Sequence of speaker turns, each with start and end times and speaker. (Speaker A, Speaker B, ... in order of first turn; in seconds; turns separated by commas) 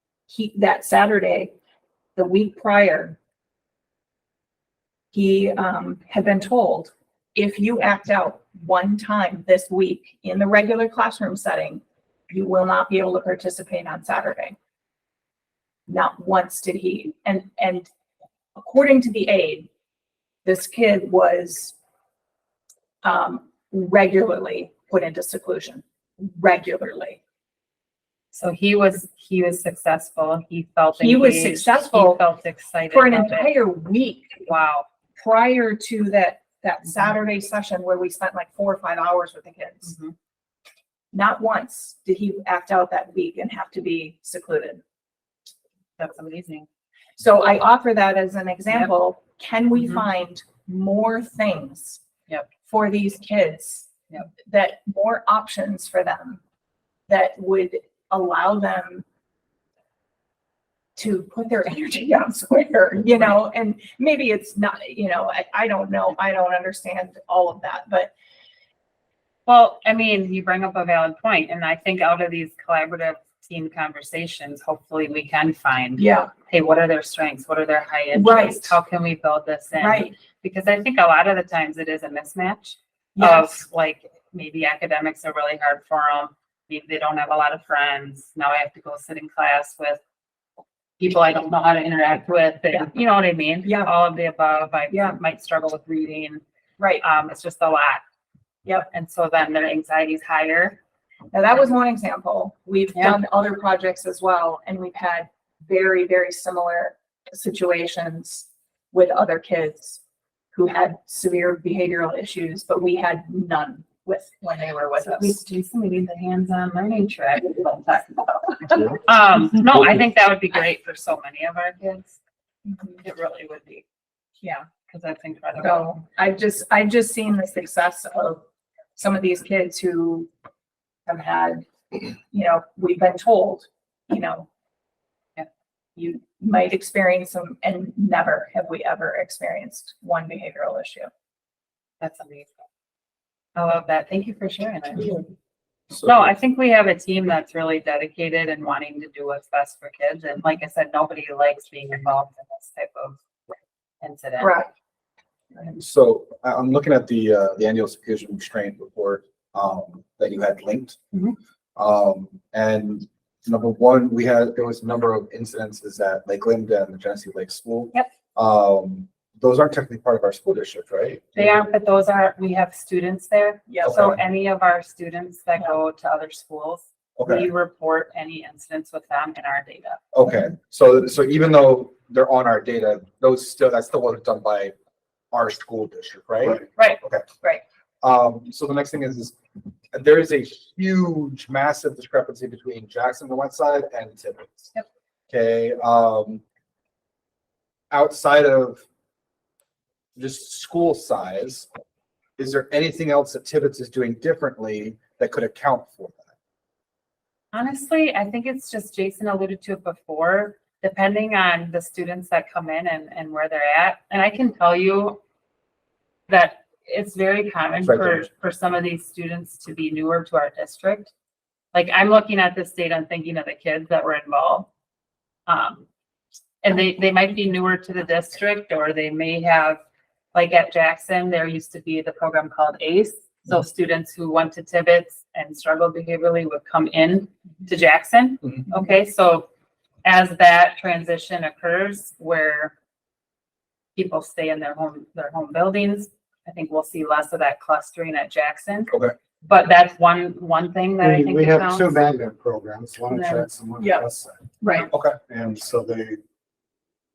Speaker A: 0.3-1.5, Speaker A: 2.2-3.2, Speaker A: 5.1-14.6, Speaker A: 15.9-17.9, Speaker A: 18.6-19.7, Speaker A: 20.4-21.8, Speaker A: 23.0-27.2, Speaker B: 28.3-33.5, Speaker A: 31.0-32.2, Speaker A: 32.9-34.4, Speaker B: 34.5-34.9, Speaker A: 35.2-40.0, Speaker B: 39.9-40.1, Speaker A: 41.1-44.8, Speaker B: 46.0-46.7, Speaker A: 47.2-52.0, Speaker A: 52.7-56.4, Speaker A: 57.1-59.0, Speaker A: 61.0-68.1, Speaker B: 69.5-90.0, Speaker A: 76.0-76.3, Speaker A: 78.1-78.8, Speaker A: 79.8-80.1, Speaker A: 83.2-83.6, Speaker B: 91.0-96.4, Speaker A: 93.6-93.9, Speaker A: 94.9-95.2, Speaker A: 96.8-97.0, Speaker B: 97.0-98.0, Speaker B: 98.9-100.8, Speaker A: 101.3-110.0, Speaker A: 110.5-115.4, Speaker B: 115.0-122.2, Speaker B: 123.0-123.8, Speaker B: 124.8-125.9, Speaker A: 125.6-128.4, Speaker A: 129.0-130.3, Speaker A: 131.1-131.7, Speaker A: 132.3-134.5, Speaker A: 136.0-141.1, Speaker B: 142.0-142.5, Speaker B: 143.6-145.3, Speaker C: 145.9-146.3, Speaker B: 146.0-153.2, Speaker B: 154.0-154.6, Speaker A: 154.4-154.7, Speaker C: 155.8-161.0, Speaker C: 161.8-171.6, Speaker B: 171.4-180.0, Speaker A: 173.7-174.0, Speaker C: 173.8-174.2, Speaker C: 177.2-177.5, Speaker C: 180.1-184.7, Speaker C: 185.3-187.2, Speaker C: 188.0-189.4, Speaker C: 189.9-194.7, Speaker C: 195.3-196.4, Speaker C: 197.9-198.8, Speaker C: 200.2-201.7, Speaker C: 202.4-206.3, Speaker B: 207.5-215.2, Speaker B: 216.3-221.1, Speaker C: 217.9-218.2, Speaker B: 221.7-224.7, Speaker B: 225.5-225.8, Speaker B: 226.6-229.8, Speaker B: 230.3-239.5, Speaker B: 240.1-242.7, Speaker B: 244.0-252.0, Speaker D: 251.0-254.4, Speaker B: 253.1-253.5, Speaker A: 254.6-254.9, Speaker C: 254.9-255.2, Speaker D: 255.2-256.2